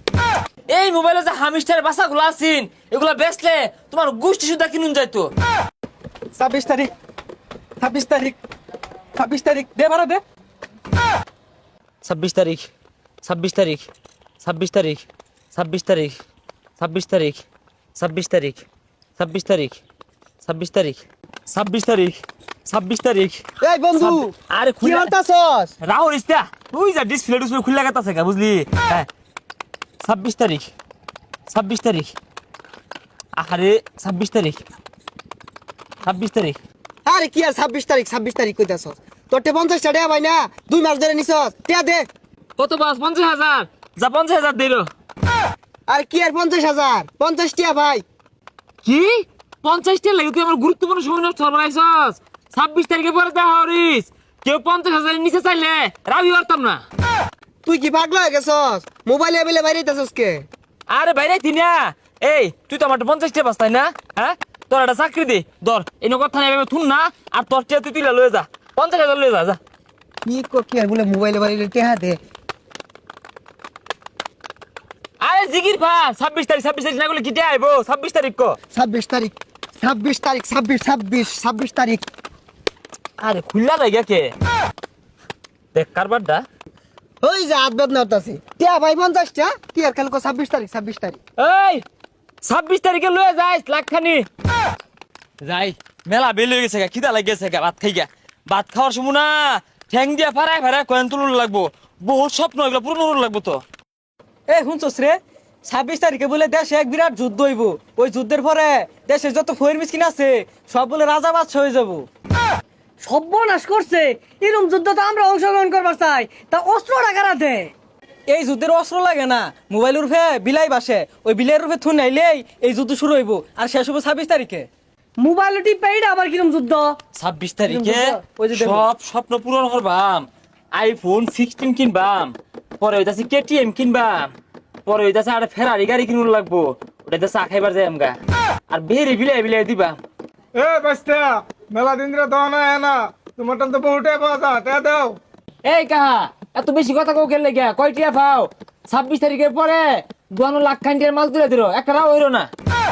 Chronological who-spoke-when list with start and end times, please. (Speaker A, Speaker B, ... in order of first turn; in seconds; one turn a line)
Speaker A: 0.7-5.3
Speaker B: 6.3-6.9
Speaker B: 7.8-8.4
Speaker B: 9.2-10.2
Speaker A: 12.0-12.7
Speaker A: 13.2-13.8
Speaker A: 14.4-16.1
Speaker A: 16.8-17.4
Speaker A: 17.9-18.6
Speaker A: 19.2-19.8
Speaker A: 20.4-23.4
Speaker C: 23.6-25.7
Speaker A: 24.0-25.1
Speaker A: 25.8-29.1
Speaker A: 30.0-30.7
Speaker A: 31.5-32.1
Speaker A: 33.4-34.6
Speaker A: 36.0-36.6
Speaker C: 37.0-42.1
Speaker A: 42.6-44.9
Speaker C: 45.9-48.0
Speaker A: 48.8-56.8
Speaker C: 57.6-60.5
Speaker A: 60.9-69.6
Speaker C: 70.2-72.2
Speaker A: 75.2-78.6
Speaker C: 78.7-82.0
Speaker A: 83.2-84.3
Speaker A: 85.7-86.5
Speaker C: 87.2-91.2
Speaker A: 91.4-91.8
Speaker A: 92.4-94.3
Speaker A: 95.4-103.6
Speaker B: 104.5-112.1
Speaker D: 113.0-117.4
Speaker B: 113.8-114.5
Speaker B: 115.9-116.6
Speaker B: 117.3-117.7
Speaker B: 118.3-124.7
Speaker D: 125.2-127.0
Speaker A: 127.1-134.3
Speaker B: 127.7-128.9
Speaker A: 134.8-138.2
Speaker A: 138.7-140.0
Speaker E: 140.6-145.2
Speaker A: 145.6-152.5